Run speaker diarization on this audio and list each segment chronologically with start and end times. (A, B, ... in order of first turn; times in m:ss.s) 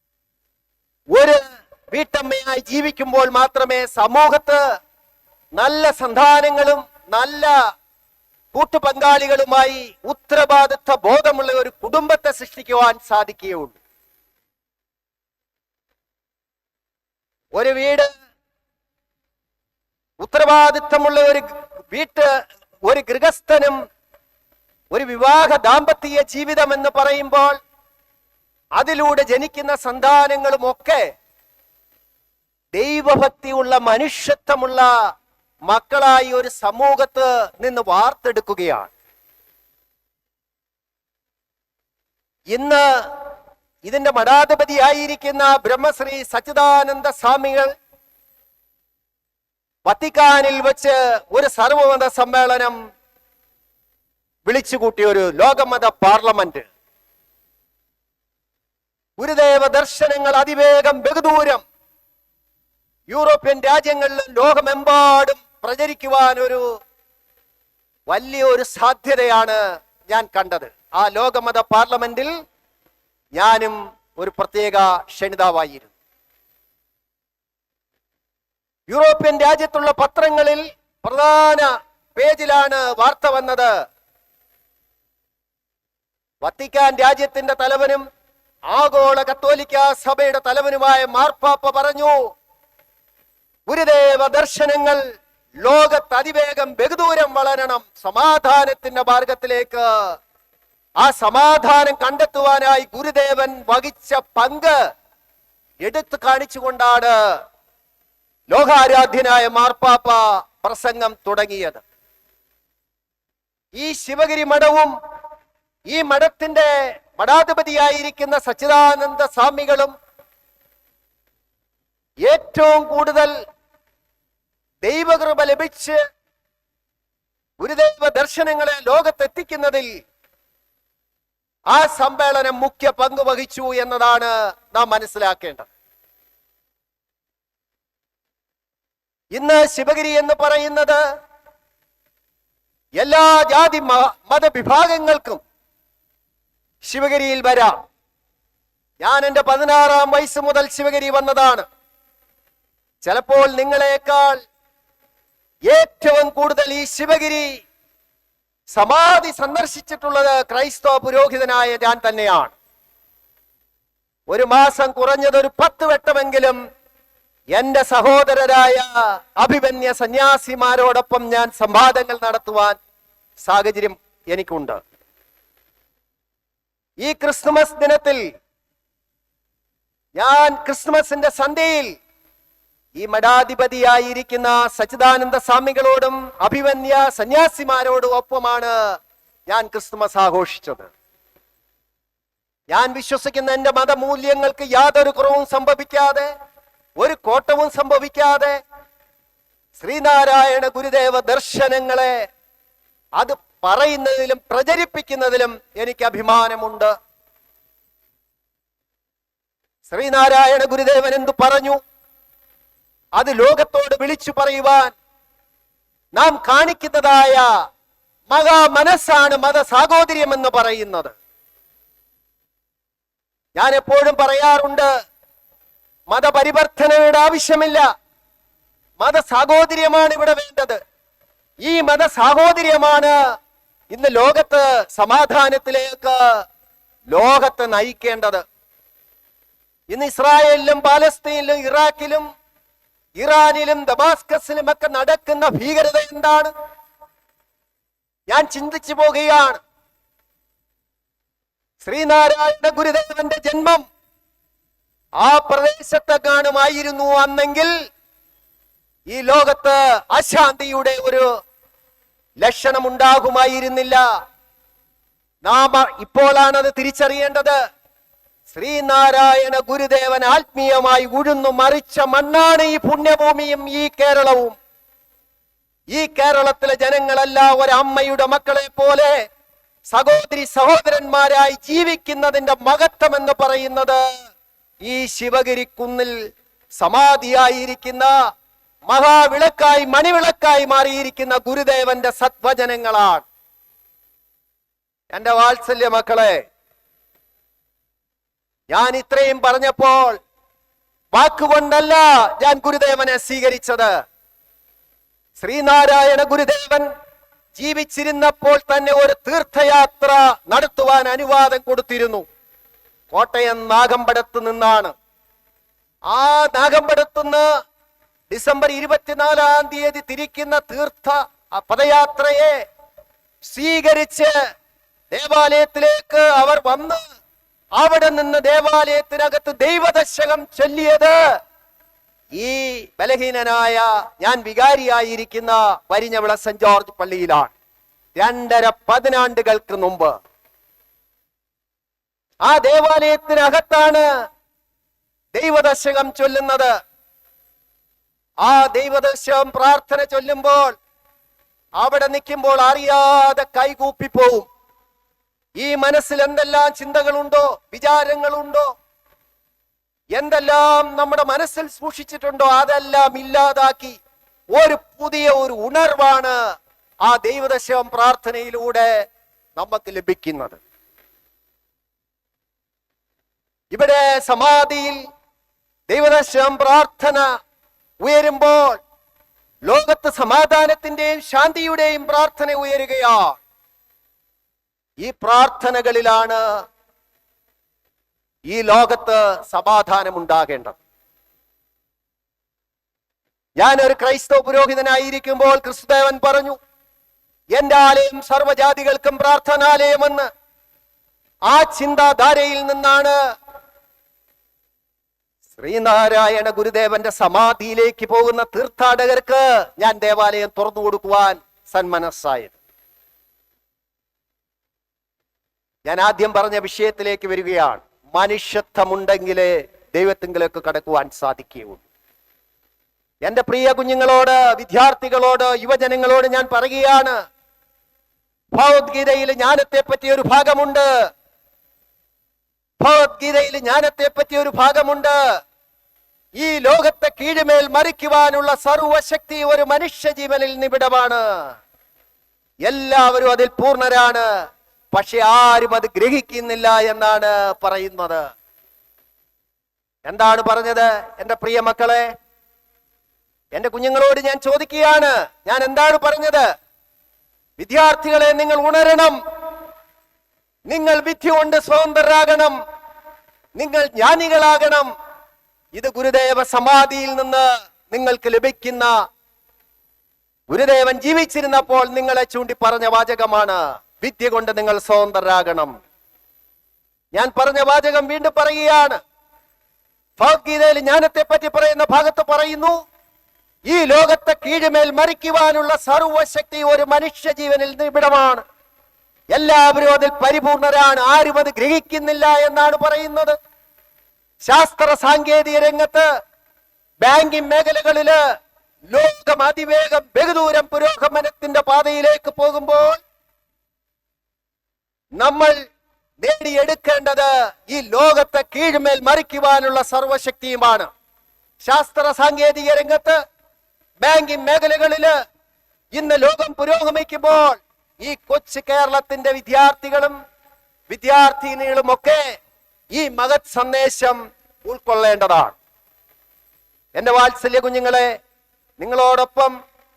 0:01.1-0:01.4 A
0:01.9-0:04.6 A
0:05.6-0:07.5 A
0:08.5-0:13.8 A
0:17.5-0:18.1 A
0:20.2-0:22.3 A
0:22.8-0:23.8 A
0:24.9-0:27.6 A
0:28.8-0:31.1 A
0:32.7-0:34.9 A
0:35.7-0:38.9 A
0:42.5-0:43.0 A
0:43.8-0:47.7 A
0:49.8-0:52.8 A
0:54.4-0:56.7 A
0:59.2-1:01.6 A
1:03.1-1:06.6 A
1:08.1-1:12.3 A
1:13.3-1:15.9 A
1:18.9-1:23.7 A
1:26.4-1:28.0 A
1:28.7-1:32.2 A
1:33.7-1:35.0 A
1:35.6-1:40.1 A
1:41.0-1:44.8 A
1:45.8-1:47.2 A
1:48.5-1:51.8 A
1:53.8-1:54.9 A
1:55.9-1:59.9 A
2:02.2-2:03.3 A
2:04.8-2:06.0 A
2:07.6-2:09.9 A
2:11.7-2:15.7 A
2:19.3-2:21.0 A
2:23.0-2:25.4 A
2:26.8-2:27.8 A
2:29.0-2:31.6 A
2:33.0-2:34.4 A
2:35.7-2:37.5 A
2:38.7-2:42.6 A
2:44.3-2:46.6 A
2:47.5-2:52.8 A
2:53.4-2:54.8 A
2:57.0-2:58.2 A
3:00.1-3:01.9 A
3:03.0-3:10.9 A
3:12.7-3:16.3 A
3:17.0-3:18.6 A
3:19.8-3:22.2 A
3:23.2-3:26.9 A
3:29.9-3:31.8 A
3:33.2-3:34.9 A
3:36.1-3:37.5 A
3:38.3-3:41.1 A
3:43.6-3:44.9 A
3:46.1-3:47.8 A
3:49.0-3:50.8 A
3:51.6-3:53.1 A
3:53.9-3:56.4 A
3:57.1-3:58.4 A
3:59.9-4:02.2 A
4:03.2-4:06.5 A
4:08.3-4:09.6 A
4:11.8-4:13.8 A
4:15.2-4:17.7 A
4:19.1-4:21.3 A
4:22.4-4:24.0 A
4:25.4-4:27.6 A
4:28.5-4:34.6 A
4:35.9-4:39.1 A
4:39.9-4:44.0 A
4:44.8-4:46.1 A
4:46.8-4:48.1 A
4:48.9-4:53.3 A
4:55.1-4:56.4 A
4:58.7-5:00.2 A
5:01.1-5:03.9 A
5:05.4-5:06.9 A
5:07.6-5:12.2 A
5:13.1-5:14.9 A
5:16.1-5:17.5 A
5:18.3-5:22.6 A
5:23.4-5:24.3 A
5:25.1-5:27.0 A
5:27.8-5:31.2 A
5:32.4-5:37.5 A
5:38.2-5:40.1 A
5:42.4-5:44.0 A
5:45.3-5:46.7 A
5:48.4-5:50.7 A
5:51.8-5:54.5 A
5:55.6-5:58.6 A
6:00.1-6:04.0 A
6:04.5-6:06.4 A
6:07.0-6:09.0 A
6:09.6-6:10.6 A
6:13.7-6:15.0 A
6:15.9-6:17.3 A
6:18.0-6:18.8 A
6:19.7-6:23.4 A
6:25.0-6:26.4 A
6:28.5-6:30.8 A
6:33.6-6:36.6 A
6:37.5-6:40.3 A
6:41.5-6:43.2 A
6:45.6-6:52.6 A
6:55.8-7:01.8 A
7:03.2-7:07.1 A
7:08.5-7:10.9 A
7:12.8-7:15.2 A
7:16.4-7:21.3 A
7:22.6-7:24.2 A
7:24.9-7:28.3 A
7:30.0-7:32.1 A
7:33.5-7:36.5 A
7:37.6-7:39.2 A
7:40.7-7:42.5 A
7:43.6-7:44.9 A
7:45.7-7:48.9 A
7:50.5-7:55.7 A
7:57.1-7:59.0 A
8:00.2-8:02.7 A
8:03.7-8:08.4 A
8:09.3-8:13.4 A
8:14.4-8:16.1 A
8:17.0-8:18.2 A
8:18.9-8:23.0 A
8:25.2-8:25.6 A
8:26.2-8:30.9 A
8:31.6-8:33.2 A
8:34.0-8:35.1 A
8:35.9-8:40.1 A
8:40.9-8:42.2 A
8:42.9-8:45.6 A
8:46.9-8:48.1 A
8:48.8-8:49.5 A